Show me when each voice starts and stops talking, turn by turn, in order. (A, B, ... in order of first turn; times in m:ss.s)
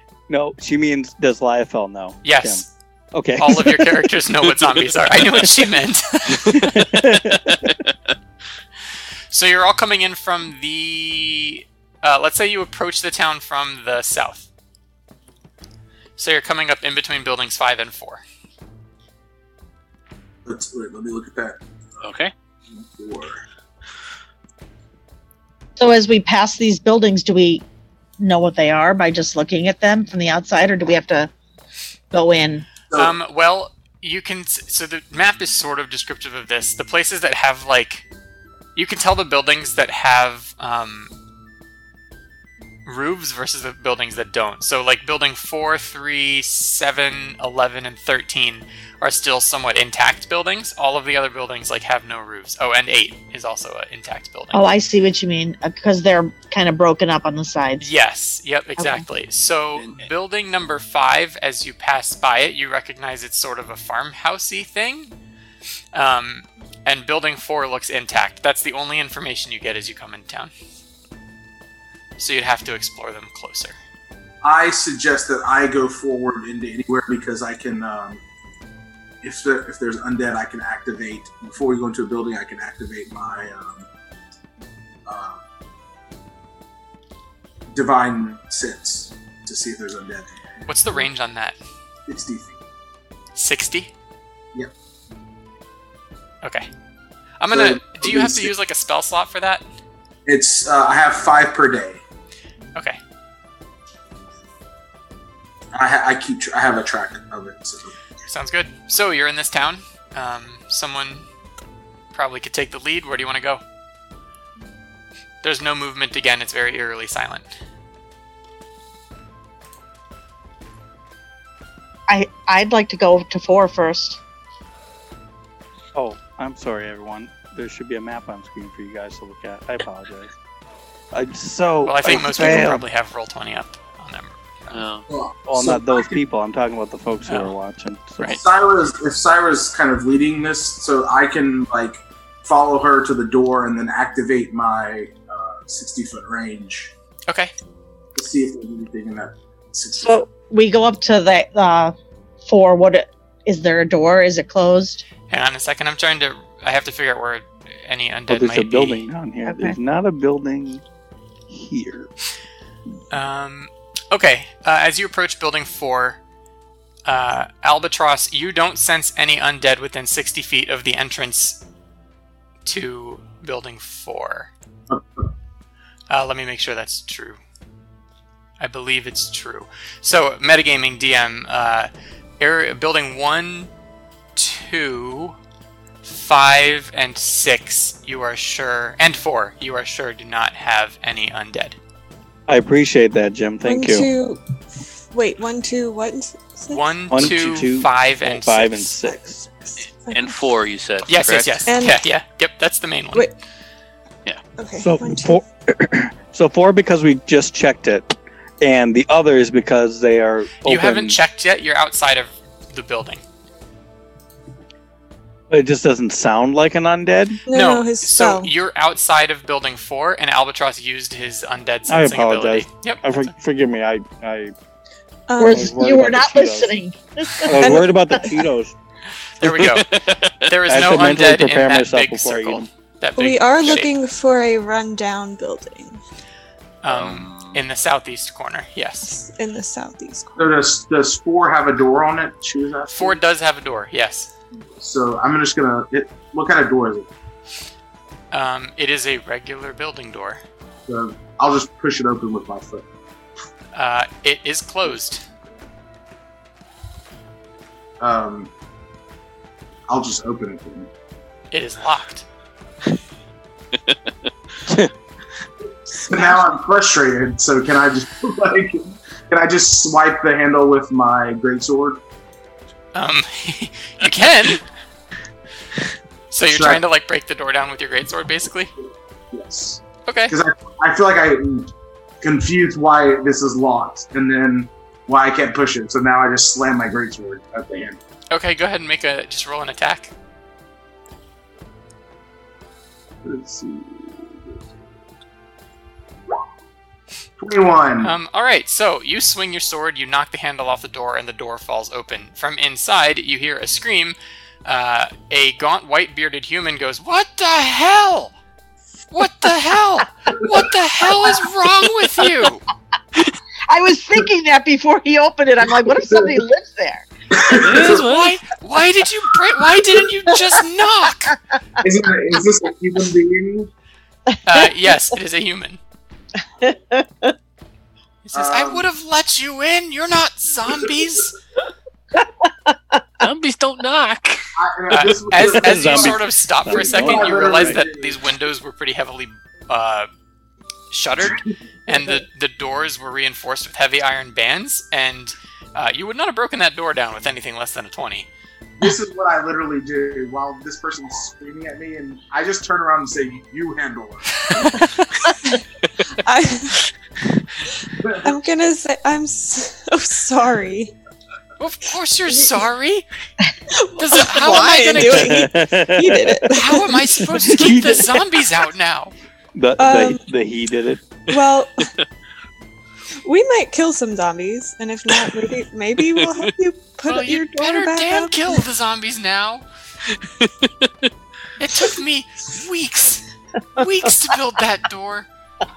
0:00.3-0:05.5 A
0:02.2-0:02.7 B
0:03.4-0:06.7 B
0:06.4-0:07.7 A
0:07.5-0:07.9 C
0:09.3-0:14.5 B
0:16.2-0:18.2 B
0:20.5-0:21.6 D
0:22.0-0:22.3 C
0:22.7-0:23.4 D
0:25.8-0:27.6 E
0:28.2-0:31.3 E
0:32.1-0:32.7 E
0:32.9-0:33.2 D
0:33.0-0:38.1 B
0:38.8-0:41.1 B
0:42.9-0:54.7 B
0:54.5-0:57.9 E
0:57.8-1:05.1 B
0:58.8-0:59.0 E
0:59.8-1:00.1 C
1:05.9-1:10.5 B
1:12.2-1:13.8 B
1:14.4-1:18.2 D
1:19.2-1:23.9 D
1:25.1-1:25.4 D
1:27.7-1:30.4 D
1:30.7-1:31.6 B
1:32.1-1:32.6 D
1:33.4-1:33.9 B
1:37.4-1:39.6 B
1:37.5-1:38.5 D
1:40.3-1:42.0 D
1:45.7-1:48.0 D
1:48.3-1:51.2 B
1:52.1-1:53.6 B
1:55.4-1:57.5 B
2:02.1-2:04.2 E
2:05.9-2:10.3 A
2:11.1-2:12.8 A
2:11.8-2:14.8 B
2:14.7-2:15.0 C
2:15.1-2:16.2 D
2:15.5-2:18.4 A
2:17.3-2:17.5 B
2:18.3-2:26.9 D
2:28.2-2:30.3 D
2:30.0-2:32.0 E
2:32.5-2:35.0 E
2:35.3-2:39.1 B
2:38.3-2:40.8 A
2:39.5-2:39.8 E
2:41.5-2:42.1 A
2:43.1-2:46.2 B
2:47.1-2:51.6 B
2:52.6-2:54.5 B
2:54.9-2:55.3 D
2:56.1-2:57.4 B
2:58.6-3:03.7 B
3:04.4-3:05.4 B
3:06.0-3:11.8 B
3:12.5-3:14.1 A
3:13.6-3:14.4 F
3:15.1-3:16.9 F
3:16.7-3:19.0 B
3:17.1-3:19.4 A
3:19.5-3:20.4 F
3:19.8-3:21.6 C
3:21.1-3:23.3 B
3:21.7-3:22.0 F
3:24.6-3:25.4 F
3:24.8-3:31.2 A
3:30.6-3:33.2 B
3:35.5-3:37.4 A
3:37.5-3:38.5 F
3:37.5-3:43.3 B
3:41.9-3:44.5 A
3:45.3-3:45.7 F
3:45.4-3:48.4 E
3:45.4-3:46.7 A
3:47.4-3:48.8 A
3:47.6-3:47.8 F
3:49.4-3:53.9 B
3:49.4-3:50.4 C
3:50.7-3:52.7 A
3:53.2-3:56.0 F
3:56.8-3:59.1 B
3:56.9-3:57.6 C
3:59.0-4:00.5 F
4:00.4-4:03.2 D
4:02.9-4:04.3 B
4:04.8-4:07.1 D
4:08.3-4:10.4 B
4:10.9-4:12.9 D
4:13.8-4:15.2 B
4:18.0-4:18.5 D
4:19.9-4:20.9 D
4:21.5-4:22.2 B
4:24.7-4:24.9 A
4:26.1-4:32.0 D
4:32.9-4:34.6 B
4:36.3-4:38.7 B
4:36.5-4:36.8 D
4:39.3-4:48.0 D
4:40.1-4:40.4 B
4:48.3-4:50.1 B
4:53.2-4:54.6 D
4:57.4-4:58.2 D
4:58.0-5:08.4 B
5:09.1-5:12.6 B
5:13.7-5:17.1 E
5:16.0-5:16.4 D
5:17.3-5:18.1 D
5:17.6-5:18.4 C
5:17.8-5:21.4 B
5:21.8-5:23.7 D
5:24.4-5:25.8 B
5:26.6-5:27.3 E
5:28.2-5:31.4 B
5:28.3-5:28.9 D
5:32.2-5:32.7 E
5:33.2-5:34.4 C
5:34.6-5:38.2 D
5:34.9-5:40.1 B
5:35.4-5:37.8 A
5:40.9-5:48.3 B
5:48.8-5:54.9 D
5:56.2-5:56.8 F
5:58.0-5:58.4 D
5:58.2-6:00.9 F
6:01.6-6:03.1 B
6:03.7-6:07.5 F
6:04.0-6:05.4 B
6:05.0-6:06.6 A
6:06.5-6:09.1 B
6:07.3-6:08.2 A
6:09.6-6:11.1 A
6:09.8-6:10.2 F
6:11.3-6:11.9 F
6:11.3-6:11.9 C
6:13.2-6:18.6 F
6:16.0-6:16.5 C
6:17.1-6:19.6 B
6:20.1-6:21.1 C
6:21.6-6:23.2 B
6:23.8-6:25.3 B